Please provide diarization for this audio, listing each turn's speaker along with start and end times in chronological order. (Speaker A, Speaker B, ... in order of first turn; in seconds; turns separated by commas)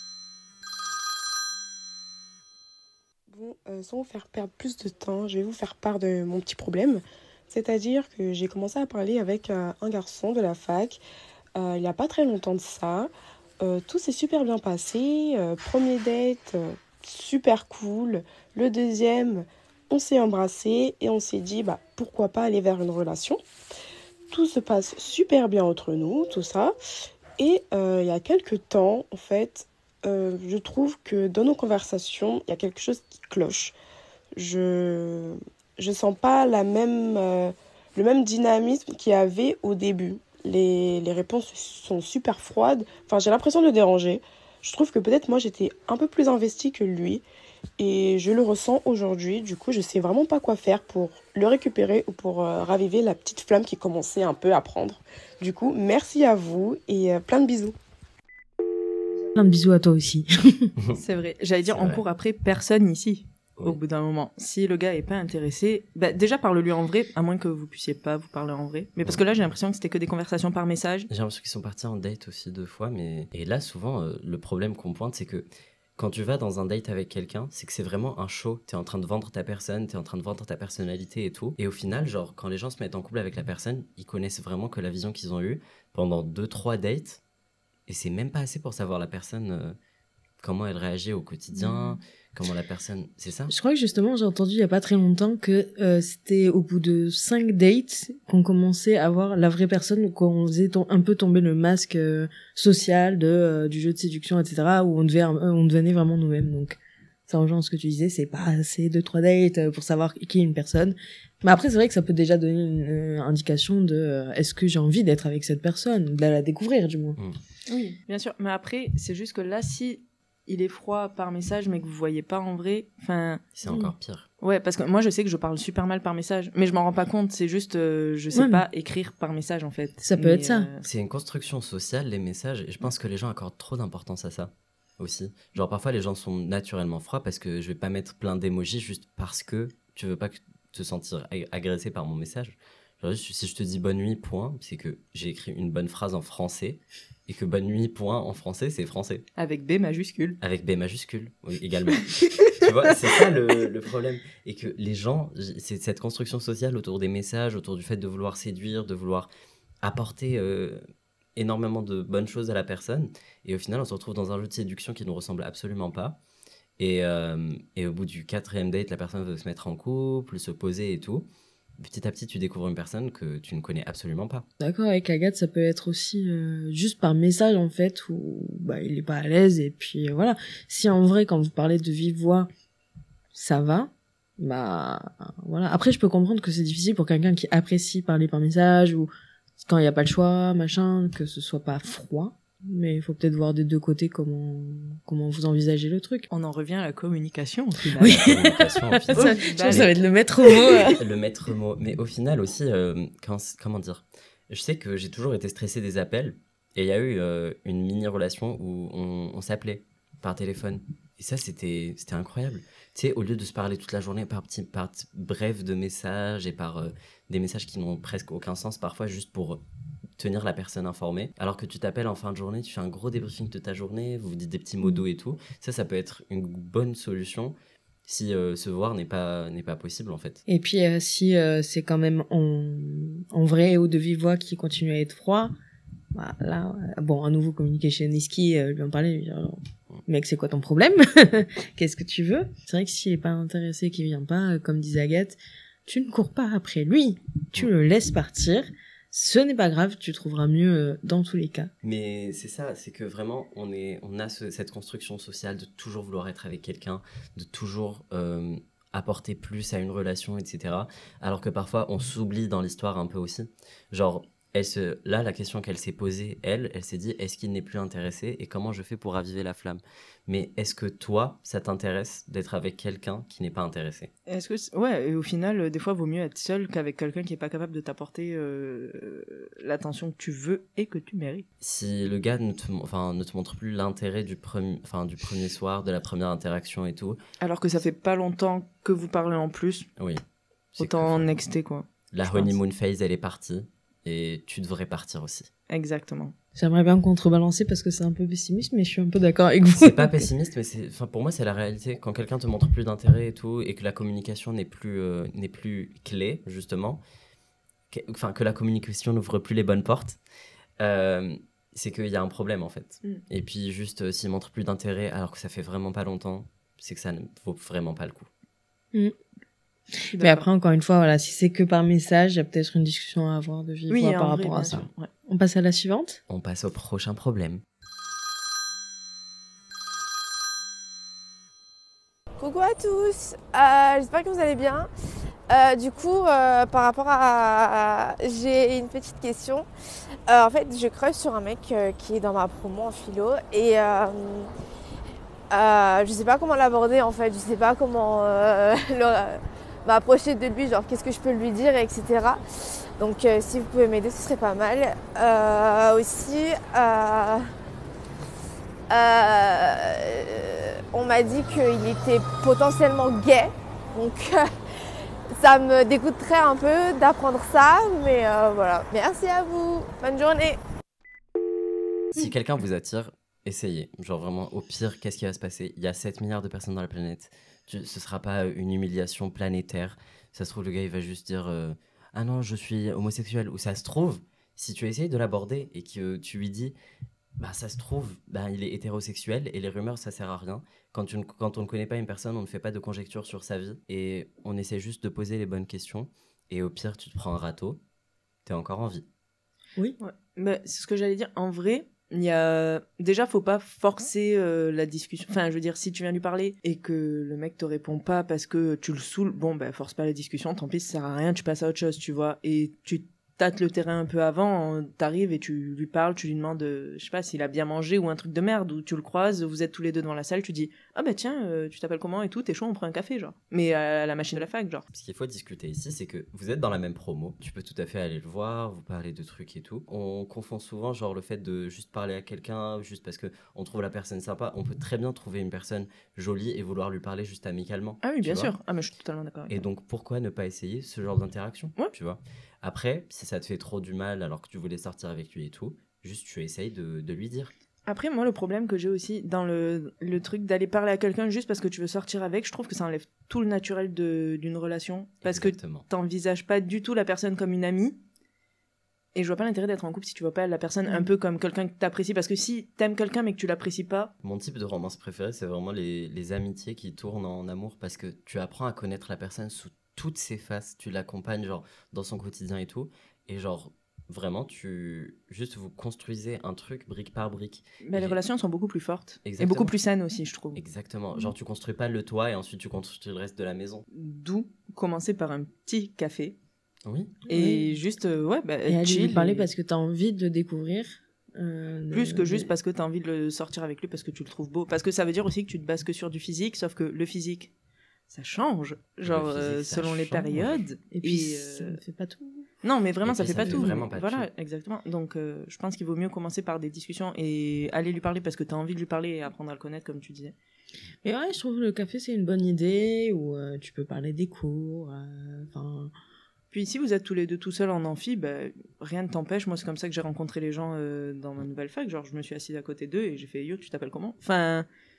Speaker A: 3.3-11.0, Speaker A: 11.6-13.1, Speaker A: 13.6-23.4, Speaker A: 24.3-26.7, Speaker A: 27.4-33.7, Speaker A: 34.4-47.2, Speaker A: 47.8-57.7, Speaker B: 59.4-60.7, Speaker C: 60.9-71.1, Speaker D: 61.6-62.0, Speaker D: 71.1-87.2, Speaker D: 87.9-89.8, Speaker D: 90.4-93.5, Speaker B: 91.5-92.0, Speaker B: 93.5-117.2, Speaker C: 117.7-123.5, Speaker D: 123.5-124.3, Speaker B: 123.7-123.9, Speaker C: 124.4-130.8, Speaker B: 128.3-128.6, Speaker B: 130.0-130.7, Speaker D: 130.8-149.2, Speaker C: 149.3-150.4, Speaker D: 150.4-159.3, Speaker C: 151.9-152.3, Speaker D: 159.8-160.8, Speaker D: 161.3-166.2, Speaker D: 166.8-174.4, Speaker B: 174.6-182.5, Speaker B: 183.3-189.1, Speaker B: 189.6-196.2, Speaker C: 196.3-198.2, Speaker D: 197.9-200.0, Speaker B: 198.0-201.0, Speaker C: 199.1-200.6, Speaker D: 201.0-219.6, Speaker D: 220.2-230.4, Speaker B: 230.5-235.5, Speaker B: 236.1-251.7, Speaker D: 251.8-274.1, Speaker C: 274.2-281.4, Speaker D: 281.6-287.2, Speaker C: 287.4-289.9, Speaker C: 290.8-292.6, Speaker D: 290.8-291.3, Speaker D: 292.1-295.5, Speaker C: 295.7-296.3, Speaker B: 296.5-300.3, Speaker D: 299.7-307.0, Speaker D: 307.9-310.2, Speaker D: 310.8-318.3, Speaker C: 320.1-320.5, Speaker B: 320.1-326.2, Speaker C: 323.9-325.1, Speaker D: 326.3-327.6, Speaker E: 332.4-334.9, Speaker E: 335.5-339.7, Speaker E: 340.3-344.5, Speaker E: 345.5-352.4, Speaker E: 353.0-357.5, Speaker E: 358.9-364.5, Speaker E: 365.3-370.6, Speaker D: 372.1-386.7, Speaker D: 387.4-397.8, Speaker D: 398.4-399.0, Speaker C: 400.0-424.9, Speaker D: 424.9-438.5, Speaker C: 438.0-439.6, Speaker D: 439.5-447.5, Speaker C: 447.9-458.0, Speaker D: 455.2-455.9, Speaker C: 459.1-464.1, Speaker D: 464.2-478.2, Speaker C: 477.8-480.6, Speaker D: 479.2-479.7, Speaker D: 480.5-483.8, Speaker C: 483.9-486.4, Speaker D: 486.9-487.2, Speaker C: 487.3-489.5, Speaker B: 487.3-487.7, Speaker B: 488.6-492.5, Speaker C: 491.9-497.5, Speaker C: 498.1-501.8, Speaker D: 499.0-500.6, Speaker B: 500.9-502.4, Speaker C: 502.6-510.3, Speaker D: 503.0-504.3, Speaker B: 503.4-503.8, Speaker B: 511.0-515.9, Speaker C: 516.5-524.7